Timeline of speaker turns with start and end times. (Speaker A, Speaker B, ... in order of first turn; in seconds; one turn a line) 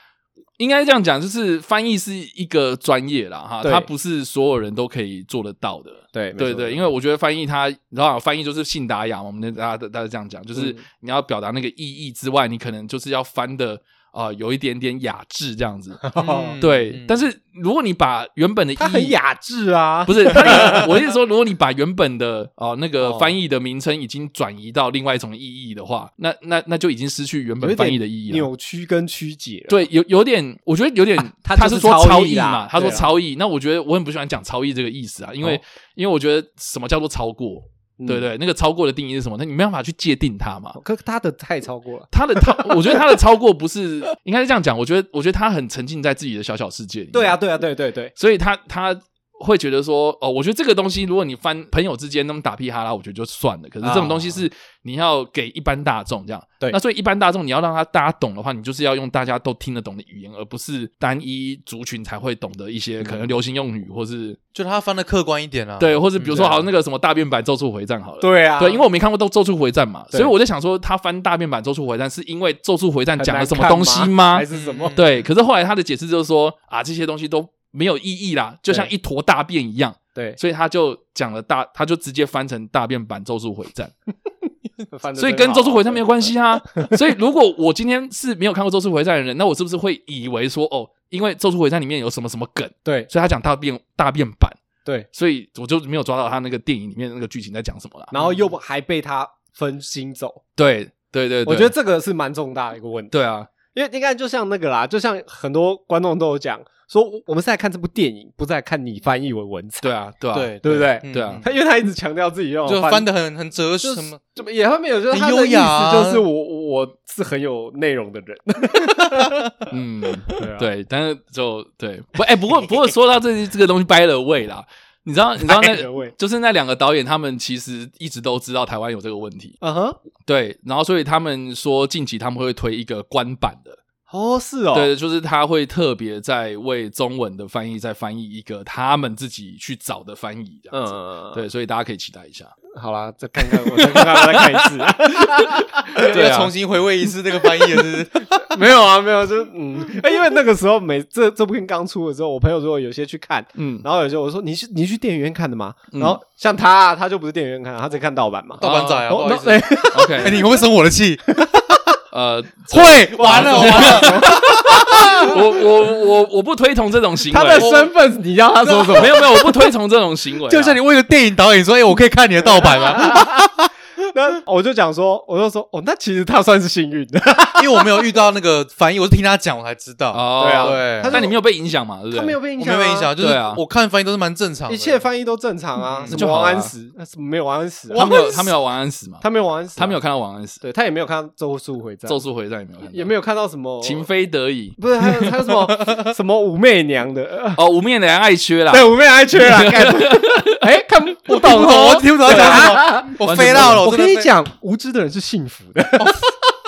Speaker A: 0.6-16.0
Speaker B: 3.6-3.9
Speaker B: 6.1-6.8
Speaker B: 10.5-10.8
Speaker B: 16.0-16.6
Speaker C: 16.2-17.2
Speaker A: 16.6-19.1
Speaker B: 18.8-21.1
Speaker A: 20.1-28.5
Speaker B: 23.0-23.4
Speaker B: 27.6-29.8
Speaker A: 29.7-40.8
Speaker B: 31.3-33.1
Speaker B: 38.0-38.2
Speaker B: 40.8-43.1
Speaker A: 42.1-47.4
Speaker B: 47.1-48.1
Speaker A: 48.1-64.4
Speaker B: 53.8-54.4
Speaker C: 64.5-66.0
Speaker A: 65.8-83.9
Speaker B: 66.2-66.7
Speaker B: 68.2-68.8
Speaker B: 73.2-75.0
Speaker C: 74.5-75.0
Speaker B: 84.9-86.9
Speaker A: 85.2-94.6
Speaker A: 95.1-98.1
Speaker B: 98.1-100.4
Speaker A: 100.5-101.7
Speaker B: 101.4-103.1
Speaker A: 103.1-103.5
Speaker B: 103.7-109.9
Speaker A: 109.8-111.4
Speaker C: 110.3-111.5
Speaker B: 110.6-113.1
Speaker C: 112.7-114.2
Speaker B: 113.8-119.7
Speaker C: 115.1-116.2
Speaker A: 119.7-129.6
Speaker B: 120.3-120.7
Speaker B: 125.4-126.1
Speaker B: 129.6-130.0
Speaker A: 130.2-133.8
Speaker B: 134.1-134.9
Speaker A: 134.7-142.5
Speaker B: 140.7-141.4
Speaker B: 142.7-146.2
Speaker A: 143.4-146.5
Speaker C: 146.0-148.5
Speaker B: 148.3-160.6
Speaker A: 153.5-153.8
Speaker A: 155.9-156.2
Speaker C: 158.6-161.2
Speaker A: 158.6-159.1
Speaker A: 159.9-160.4
Speaker B: 161.3-162.0
Speaker A: 162.1-167.7
Speaker C: 162.7-164.2
Speaker B: 163.1-165.4
Speaker B: 167.3-169.3
Speaker C: 167.6-167.9
Speaker C: 168.6-169.4
Speaker A: 168.9-170.8
Speaker C: 170.5-173.5
Speaker B: 172.8-178.1
Speaker C: 177.5-181.2
Speaker A: 180.1-182.4
Speaker B: 180.4-181.3
Speaker B: 182.1-183.1
Speaker C: 182.6-185.0
Speaker A: 183.2-183.6
Speaker B: 184.7-188.4
Speaker C: 185.9-186.2
Speaker A: 186.1-186.7
Speaker C: 187.9-188.5
Speaker A: 187.9-189.2
Speaker B: 189.2-190.0
Speaker A: 189.8-190.6
Speaker B: 190.6-192.2
Speaker A: 192.1-193.1
Speaker B: 192.9-194.1
Speaker A: 193.8-194.8
Speaker B: 194.8-197.6
Speaker A: 197.5-200.7
Speaker B: 198.7-206.3
Speaker C: 201.3-204.3
Speaker A: 202.2-203.9